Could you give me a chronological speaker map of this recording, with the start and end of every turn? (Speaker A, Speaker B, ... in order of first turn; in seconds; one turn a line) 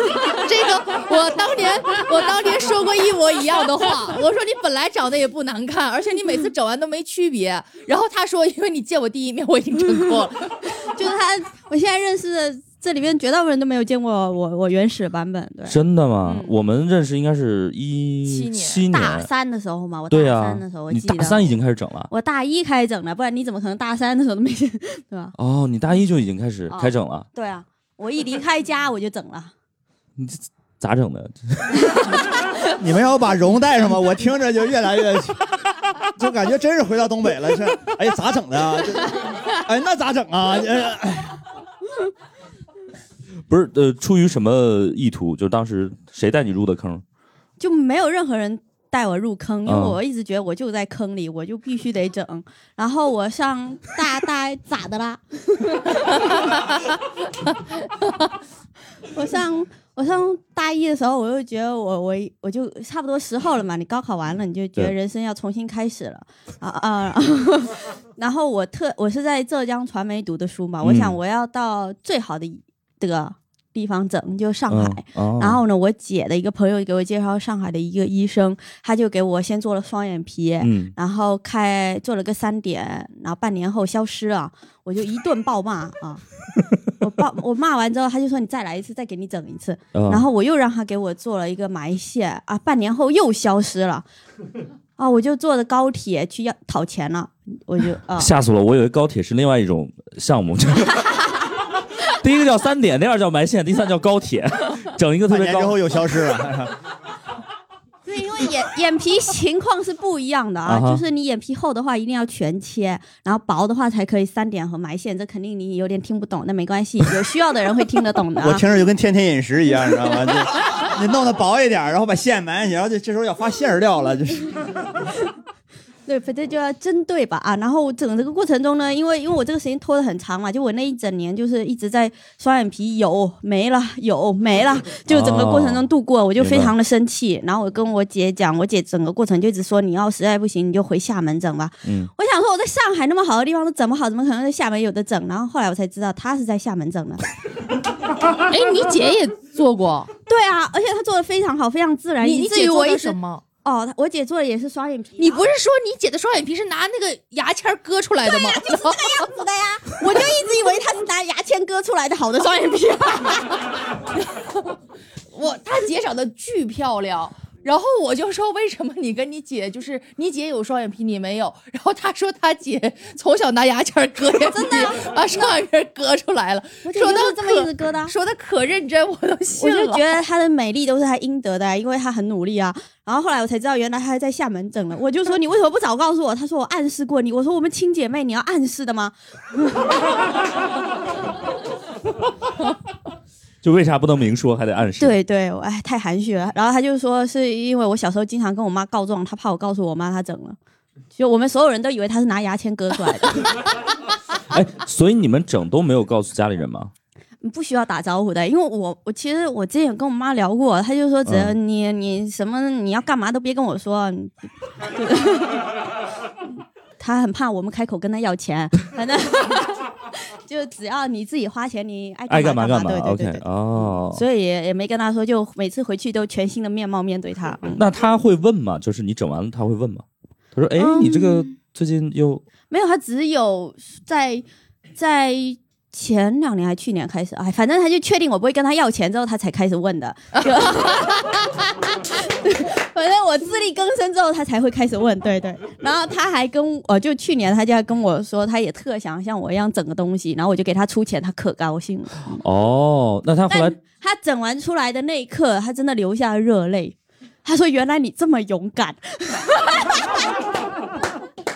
Speaker A: 0.3-10.6
Speaker B: 10.8-16.5
Speaker C: 15.7-19.3
Speaker A: 18.2-18.9
Speaker B: 18.9-21.5
Speaker C: 20.1-22.1
Speaker B: 22.1-25.3
Speaker C: 25.4-27.2
Speaker B: 26.7-29.5
Speaker C: 30.2-32.0
Speaker D: 32.8-35.5
Speaker D: 36.1-41.4
Speaker C: 43.5-47.0
Speaker B: 47.6-56.3
Speaker C: 49.6-50.0
Speaker B: 59.1-86.2
Speaker C: 70.8-71.2
Speaker C: 74.7-75.6
Speaker C: 80.6-80.9
Speaker B: 87.0-94.0
Speaker C: 89.9-90.2
Speaker B: 95.0-98.3
Speaker C: 98.2-101.3
Speaker C: 102.1-105.8
Speaker D: 105.3-106.7
Speaker B: 108.1-118.6
Speaker C: 110.7-111.0
Speaker D: 118.4-124.6
Speaker B: 126.1-147.2
Speaker C: 135.1-135.9
Speaker C: 136.4-136.7
Speaker C: 141.8-142.1
Speaker A: 148.5-150.1
Speaker B: 150.3-155.4
Speaker A: 152.2-153.4
Speaker A: 155.2-159.3
Speaker B: 158.2-163.6
Speaker A: 165.3-180.1
Speaker B: 174.5-175.0
Speaker B: 176.8-178.1
Speaker B: 179.6-189.9
Speaker C: 193.6-195.2
Speaker B: 195.0-200.6
Speaker B: 201.1-203.5
Speaker C: 204.5-206.9
Speaker B: 207.4-215.7
Speaker C: 211.2-211.5
Speaker B: 217.0-227.8
Speaker C: 222.3-224.2
Speaker C: 227.8-230.0
Speaker C: 230.5-232.4
Speaker B: 230.8-231.5
Speaker B: 232.7-234.5
Speaker B: 235.0-252.4
Speaker A: 240.3-241.1
Speaker C: 252.4-253.8
Speaker B: 253.5-259.9